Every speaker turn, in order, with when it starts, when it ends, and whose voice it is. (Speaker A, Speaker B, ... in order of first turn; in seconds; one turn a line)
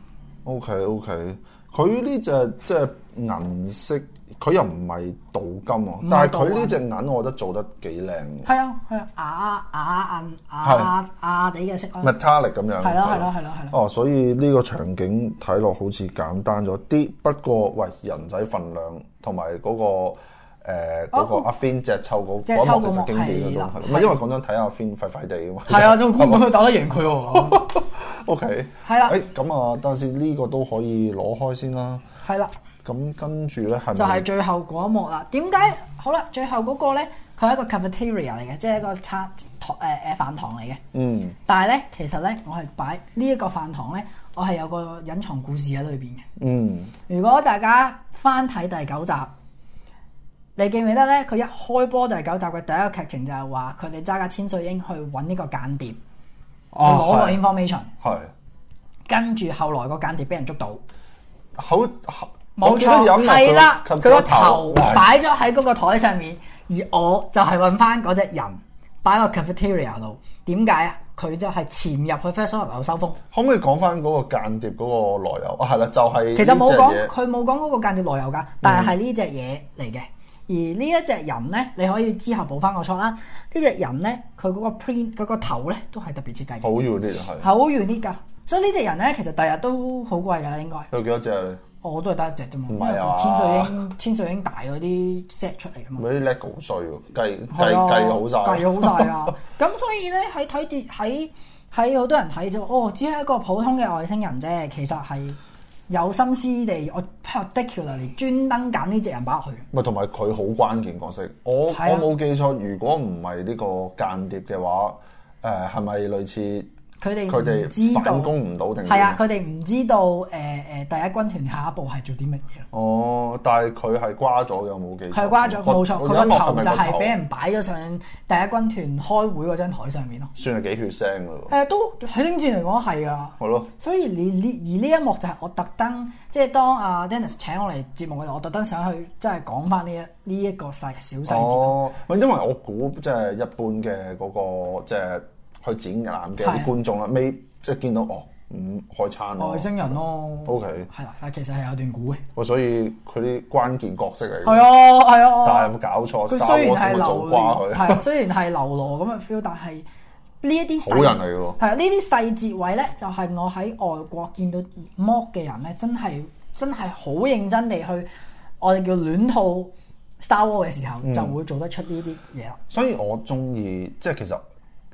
Speaker A: 0.5-8.5
Speaker B: 6.0-6.8
Speaker B: 8.4-12.2
Speaker A: 10.6-10.9
Speaker A: 12.0-26.7
Speaker B: 12.8-13.8
Speaker B: 21.1-21.5
Speaker B: 22.5-24.2
Speaker B: 25.7-27.7
Speaker A: 27.3-32.0
Speaker B: 28.9-29.2
Speaker B: 32.2-32.5
Speaker A: 32.8-34.3
Speaker B: 34.0-40.8
Speaker A: 40.9-41.4
Speaker B: 41.5-46.3
Speaker A: 46.4-46.9
Speaker B: 47.1-49.3
Speaker B: 50.6-56.0
Speaker A: 56.7-57.4
Speaker B: 56.8-57.9
Speaker A: 58.0-58.3
Speaker B: 59.1-60.8
Speaker A: 61.6-65.1
Speaker B: 62.6-73.2
Speaker A: 73.3-77.1
Speaker B: 76.3-86.7
Speaker A: 78.6-79.0
Speaker A: 86.6-87.5
Speaker B: 87.4-90.9
Speaker A: 90.9-91.6
Speaker B: 91.8-96.0
Speaker A: 92.7-93.8
Speaker A: 96.0-99.2
Speaker B: 97.5-109.7
Speaker A: 109.7-116.7
Speaker B: 111.7-112.1
Speaker B: 117.0-118.3
Speaker A: 117.3-119.2
Speaker B: 118.8-122.7
Speaker A: 122.7-127.2
Speaker B: 125.1-130.3
Speaker A: 130.4-131.5
Speaker B: 131.5-141.8
Speaker A: 133.4-133.7
Speaker A: 141.3-150.9
Speaker B: 146.4-146.7
Speaker B: 149.4-152.2
Speaker A: 152.4-154.8
Speaker B: 154.4-155.7
Speaker A: 155.4-158.1
Speaker B: 156.3-159.9
Speaker B: 160.4-168.1
Speaker A: 160.8-161.6
Speaker B: 168.6-172.6
Speaker A: 171.0-171.4
Speaker A: 172.7-174.4